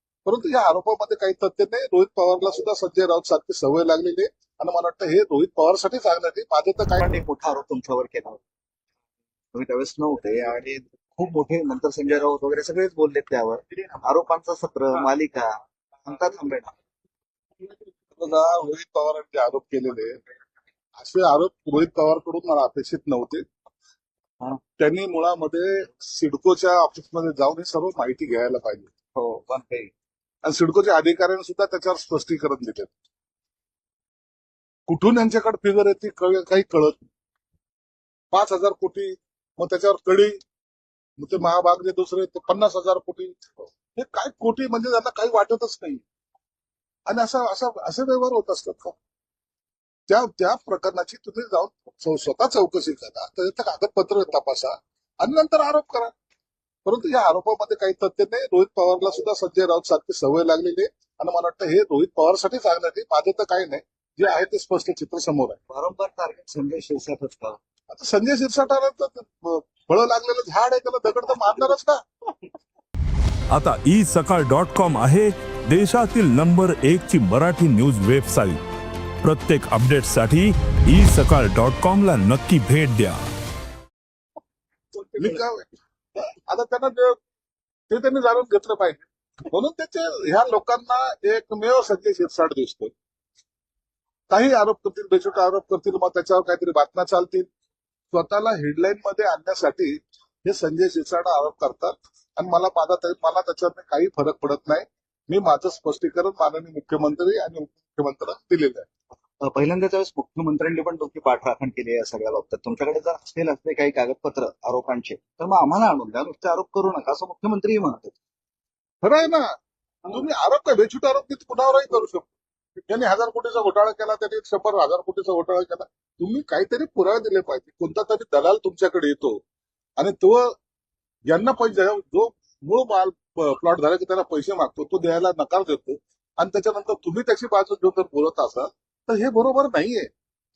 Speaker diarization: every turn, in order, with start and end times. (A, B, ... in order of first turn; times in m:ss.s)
0:00.2-0:07.1 A
0:07.0-0:08.4 B
0:09.5-0:16.7 B
0:18.1-0:20.2 A
0:21.0-0:23.4 A
0:24.8-0:28.9 A
0:29.2-0:29.9 B
0:30.4-0:32.9 A
0:34.9-0:37.0 A
0:38.3-0:40.4 A
0:41.2-0:46.0 A
0:47.1-0:49.0 A
0:50.1-0:56.1 A
0:56.8-1:05.6 A
1:05.7-1:07.6 B
1:07.9-1:12.0 A
1:13.5-1:18.6 C
1:19.2-1:23.2 C
1:25.0-1:25.7 A
1:26.2-1:27.2 A
1:27.9-1:32.9 A
1:34.3-1:37.5 A
1:38.1-1:48.9 A
1:49.4-1:58.2 B
1:59.0-1:59.4 A
2:00.1-2:02.3 A
2:02.9-2:09.4 A
2:10.0-2:10.6 A
2:11.3-2:20.1 A